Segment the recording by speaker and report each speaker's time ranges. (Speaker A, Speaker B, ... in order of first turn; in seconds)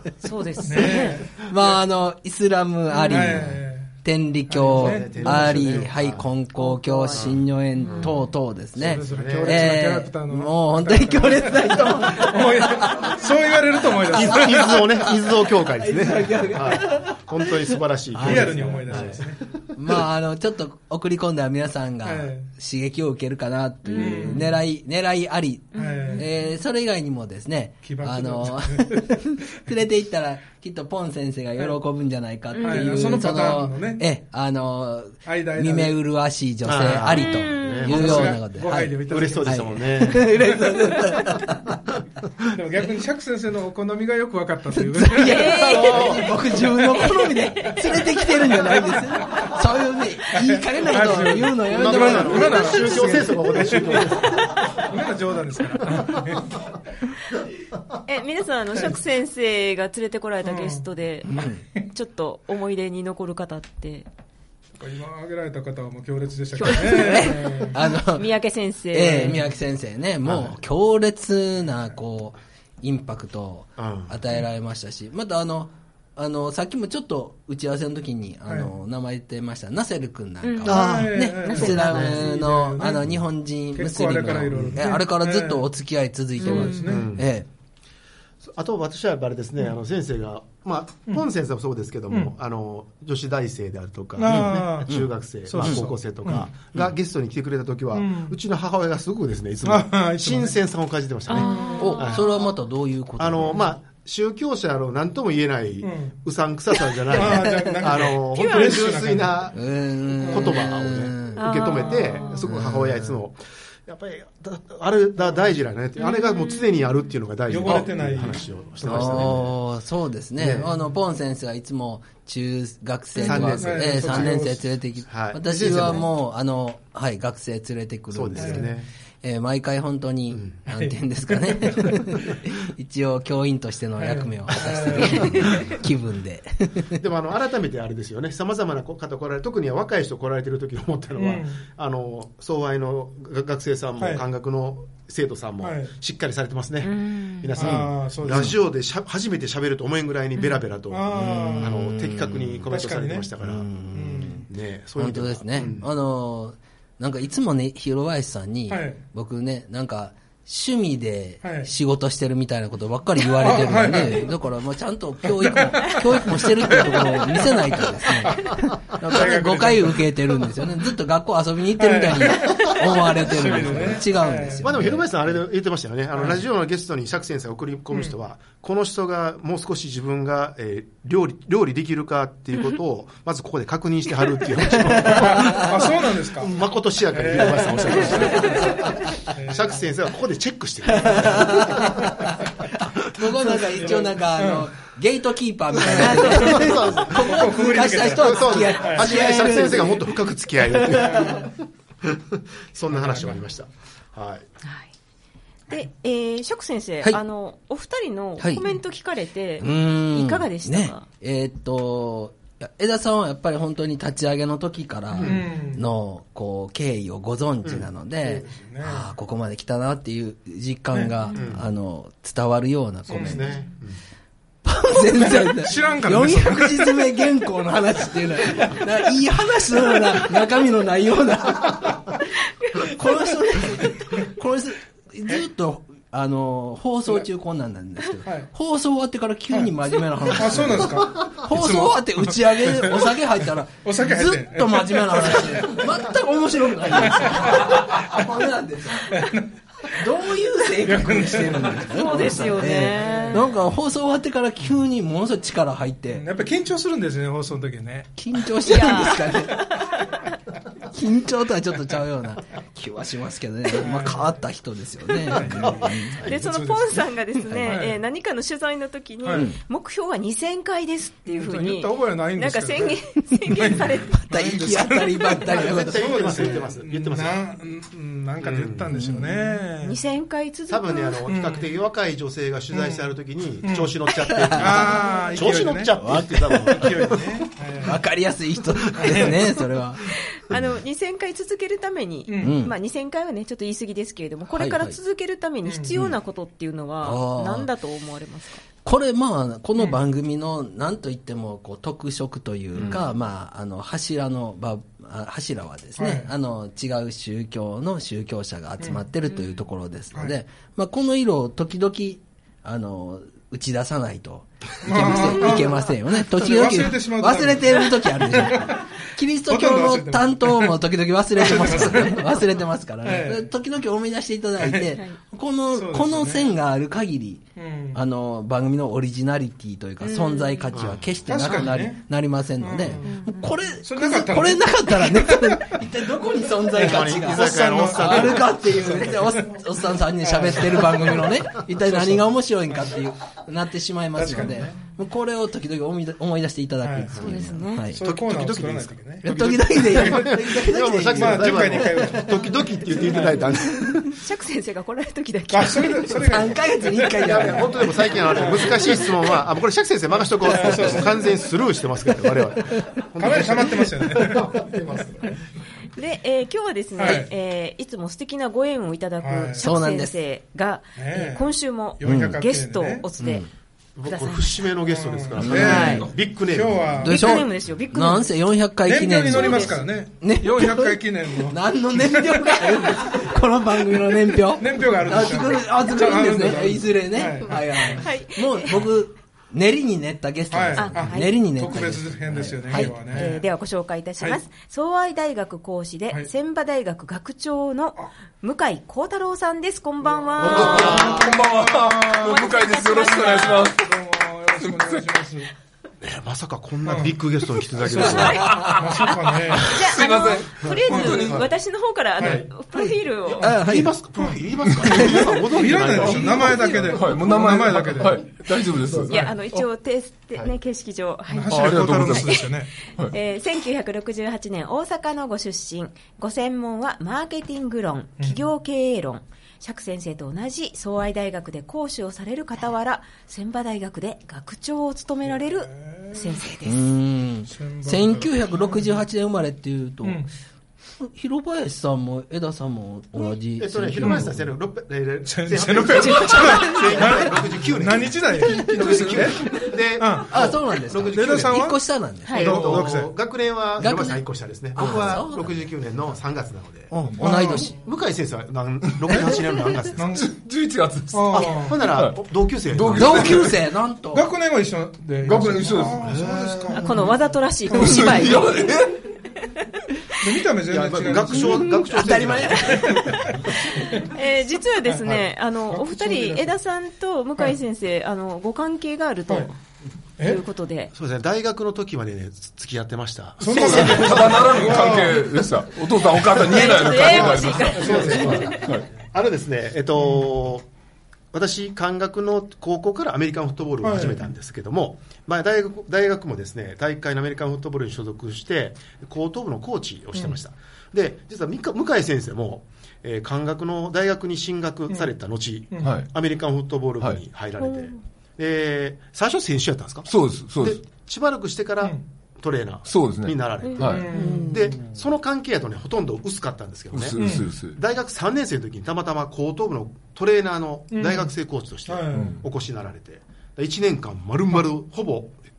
Speaker A: 0.2-1.2, 6.5-8.1, 23.9-24.1, 25.7-26.2, 32.5-33.1, 37.1-38.2, 45.2-48.9, 58.0-64.1, 66.5-69.4, 80.4-82.1, 86.4-87.0, 101.3-102.1, 108.3-109.1, 111.3-112.4, 116.0-116.7, 146.8-147.5, 204.6-204.9, 205.7-211.0, 251.9-253.5, 258.6-260.1, 266.2-274.3, 279.8-281.2, 290.1-298.6, 302.8-303.1, 309.3-309.6, 330.0-330.7, 333.0-333.4, 347.1-347.9, 354.1-356.2, 365.9-373.4, 374.0-374.7, 375.5-376.1, 377.1-378.3, 379.3-379.8, 387.9-388.9, 390.7-391.4, 392.7-401.3, 402.2-403.7, 408.0-413.5, 419.1-436.9, 452.2-452.5, 466.7-468.7, 473.8-479.5, 480.2-480.9, 486.4-488.6, 507.6-508.0, 513.6-514.8
Speaker B: 0.7-1.4, 3.0-3.9, 4.5-5.9, 8.8-14.9, 18.2-19.4, 22.0-22.5, 23.9-24.5, 25.8-26.3, 27.8-29.6, 32.6-34.0, 35.2-36.0, 37.9-39.7, 40.2-41.0, 42.5-47.1, 48.7-49.5, 50.3-56.6, 60.4-60.8, 64.8-67.8, 69.0-69.4, 80.7-83.1, 83.7-85.7, 86.4-87.1, 94.2-96.5, 97.9-98.4, 99.6-100.6, 101.4-102.1, 105.8-106.1, 107.1-109.5, 110.2-110.6, 112.0-112.4, 117.5-119.4, 123.4-124.6, 128.4-128.7, 130.7-132.4, 134.0-135.6, 141.1-141.6, 144.0-144.2, 145.6-145.9, 147.6-148.6, 150.9-151.8, 152.7-153.3, 153.9-154.4, 158.7-159.0, 161.4-161.7, 163.4-164.3, 165.2-170.9, 171.8-175.0, 176.1-176.4, 184.8-186.5, 187.1-189.8, 192.0-192.3, 193.5-194.7, 195.8-199.2, 200.9-201.4, 202.9-203.4, 215.2-215.8, 218.3-219.0, 223.1-223.4, 225.2-227.0, 240.3-243.2, 243.8-246.0, 247.0-248.3, 249.0-250.0, 250.8-252.0, 252.9-253.4, 256.1-258.1, 263.8-264.3, 265.2-267.0, 267.6-268.0, 269.2-269.5, 271.3-280.0, 281.2-281.7, 282.7-283.1, 283.6-283.9, 284.5-288.0, 289.0-289.6, 292.3-292.6, 295.6-295.9, 306.0-306.3, 314.8-320.8, 321.3-322.3, 323.0-323.5, 324.6-325.0, 325.7-326.4, 327.6-328.0, 331.3-332.0, 332.6-335.8, 336.7-339.6, 340.2-342.2, 344.1-344.8, 346.8-347.1, 347.9-349.3, 349.8-350.3, 351.1-352.5, 353.1-353.4, 355.5-357.6, 358.3-358.9, 360.4-361.3, 363.2-364.6, 367.0-367.3, 369.2-369.7, 370.9-373.1, 374.9-377.4, 378.8-383.2, 384.5-388.0, 390.5-393.4, 400.2-402.5, 403.0-405.5, 406.8-407.2, 407.8-409.8, 410.9-411.3, 412.2-412.5, 414.2-418.3, 421.3-422.7, 435.6-436.4, 437.5-438.9, 440.0-440.3, 444.0-444.3, 445.2-450.3, 451.1-453.1, 457.2-457.7, 459.9-460.3, 461.1-461.8, 464.1-468.2, 470.2-471.8, 472.6-474.1, 474.8-476.5, 480.2-480.4, 483.4-485.3, 487.1-488.6, 490.0-490.3, 493.8-494.2, 505.7-506.0, 513.8-514.5, 517.2-517.4, 520.9-521.3, 521.9-522.4
Speaker C: 1.4-13.2, 13.9-19.2, 19.7-41.8, 44.7-54.2, 61.3-61.6, 66.9-68.3, 68.9-87.5, 94.3-95.9, 101.8-103.6, 107.2-107.8, 109.5-111.5, 112.5-113.2, 118.8-128.7, 129.2-137.0, 147.6-148.6, 151.1-152.7, 153.4-154.4, 155.0-175.1, 184.7-185.4, 187.5-188.9, 190.9-201.5, 208.4-208.7, 209.6-223.5, 224.6-232.2, 232.7-249.3, 249.9-256.2, 258.2-259.6, 260.8-266.4, 267.4-267.8, 274.2-276.4, 278.9-279.6, 284.2-285.0, 285.9-287.2, 287.8-290.0, 292.4-292.7, 294.5-295.0, 297.0-297.7, 298.8-348.0, 349.2-352.0, 356.1-359.2, 360.5-361.2, 362.2-362.9, 369.6-370.1, 372.0-372.4, 373.2-373.5, 375.4-375.9, 377.0-393.3, 413.4-413.9, 436.6-440.2, 441.0-444.5, 446.4-447.2, 448.4-449.5, 450.3-452.8, 453.8-455.6, 456.9-457.7, 462.9-464.3, 471.7-473.0
Speaker D: 4.7-6.3, 7.1-7.4, 8.7-9.8, 14.1-19.6, 36.6-38.4, 39.0-40.6, 45.8-46.2, 51.6-54.6, 70.2-70.6, 73.8-74.2, 80.7-82.2, 84.5-84.9, 86.8-87.3, 88.4-102.4, 103.2-109.6, 110.3-119.5, 120.4-120.7, 123.2-124.5, 125.0-126.0, 128.1-128.9, 130.3-130.6, 134.6-135.5, 137.0-153.7, 154.4-155.9, 174.6-192.7, 195.9-204.4, 215.1-215.5, 217.6-217.9, 221.3-221.7, 223.1-224.0, 265.6-265.9, 275.5-277.5, 278.4-279.0, 280.7-287.4, 330.7-331.1, 336.8-338.7, 348.0-354.1, 357.2-365.4, 373.9-377.1, 400.4-401.3, 406.0-408.6, 410.6-411.5, 413.5-417.2, 443.6-451.7, 452.3-460.1, 461.3-463.5, 466.0-466.9, 470.7-473.7, 480.9-484.8, 486.9-490.6, 491.3-525.4
Speaker E: 375.7-376.1, 400.4-403.9, 404.6-405.0, 408.2-411.4, 414.7-415.2, 415.9-419.6, 421.5-423.1, 448.8-449.3, 460.1-462.2, 462.7-463.6, 465.2-466.2, 467.7-469.1, 483.5-488.9, 505.8-506.1, 510.1-510.8, 512.9-514.1, 516.9-517.8, 522.1-522.4